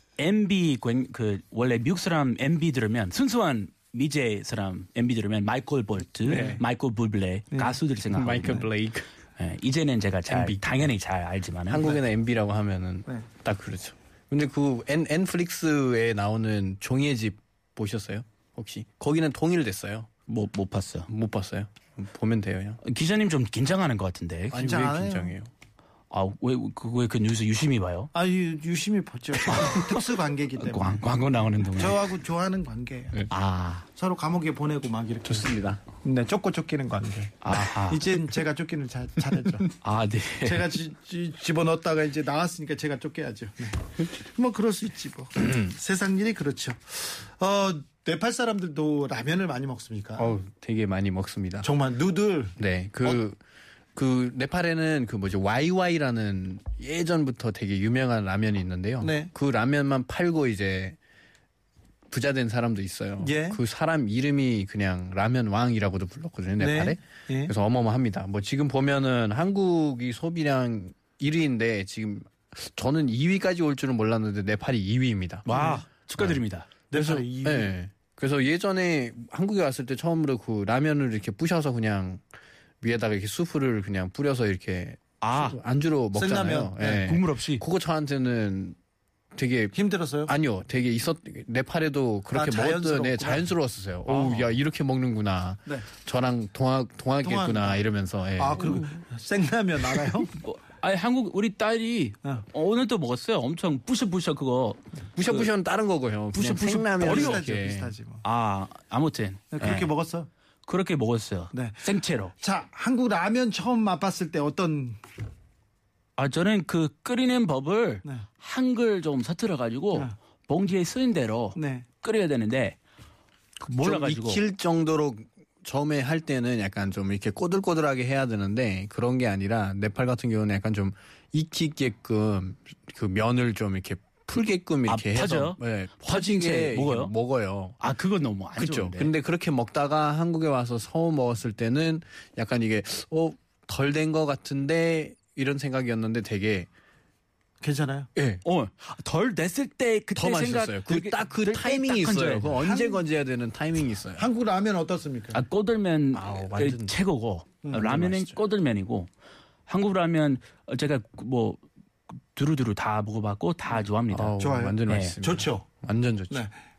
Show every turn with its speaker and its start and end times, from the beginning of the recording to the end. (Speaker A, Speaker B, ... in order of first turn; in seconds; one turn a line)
Speaker A: 0.2-8.7
Speaker B: 6.2-6.6
Speaker C: 6.3-6.6
Speaker C: 8.1-9.1
Speaker A: 9.4-11.9
Speaker C: 10.3-10.9
Speaker C: 11.7-20.1
Speaker A: 20.3-21.1
Speaker C: 21.1-22.8
Speaker A: 22.8-24.6
Speaker C: 24.5-25.5
Speaker B: 24.5-25.3
Speaker A: 26.1-28.1
Speaker B: 28.1-31.1
Speaker A: 29.5-29.9
Speaker A: 30.6-32.0
Speaker B: 31.7-33.2
Speaker A: 33.3-33.8
Speaker B: 33.9-39.7
Speaker C: 35.2-35.8
Speaker A: 37.4-38.1
Speaker A: 39.8-40.7
Speaker B: 40.4-50.3
Speaker C: 45.4-45.7
Speaker C: 50.2-51.7
Speaker B: 51.6-53.2
Speaker C: 52.6-53.4
Speaker C: 53.9-61.0
Speaker B: 59.0-59.3
Speaker C: 62.1-75.5
Speaker B: 63.2-63.6
Speaker B: 66.6-67.5
Speaker A: 75.5-76.7
Speaker B: 75.5-75.8
Speaker B: 76.9-77.7
Speaker C: 76.9-82.2
Speaker C: 82.8-88.8
Speaker A: 85.2-85.6
Speaker B: 86.1-87.0
Speaker A: 86.9-87.6
Speaker C: 89.3-98.8
Speaker B: 89.7-90.3
Speaker B: 92.3-93.5
Speaker A: 94.1-94.4
Speaker B: 97.2-97.8
Speaker B: 98.4-100.3
Speaker A: 98.6-98.9
Speaker A: 100.3-105.5
Speaker C: 105.2-107.9
Speaker A: 106.3-107.4
Speaker B: 106.7-108.2
Speaker A: 108.2-109.9
Speaker B: 109.5-110.3
Speaker A: 110.7-112.3
Speaker B: 111.5-111.8
Speaker B: 112.4-115.0
Speaker A: 116.2-122.8
Speaker B: 121.5-121.8
Speaker A: 123.6-124.4
Speaker C: 123.8-137.8
Speaker A: 134.9-137.1
Speaker A: 137.8-139.1
Speaker C: 138.6-146.7
Speaker B: 147.6-148.1
Speaker C: 148.2-148.4
Speaker A: 148.4-152.5
Speaker C: 150.2-154.3
Speaker B: 152.6-153.0
Speaker B: 154.2-155.4
Speaker A: 155.3-159.1
Speaker C: 156.1-156.9
Speaker B: 157.6-158.0
Speaker C: 157.8-158.4
Speaker A: 159.7-161.6
Speaker A: 162.3-164.3
Speaker C: 164.1-166.5
Speaker B: 164.4-165.7
Speaker A: 164.9-165.1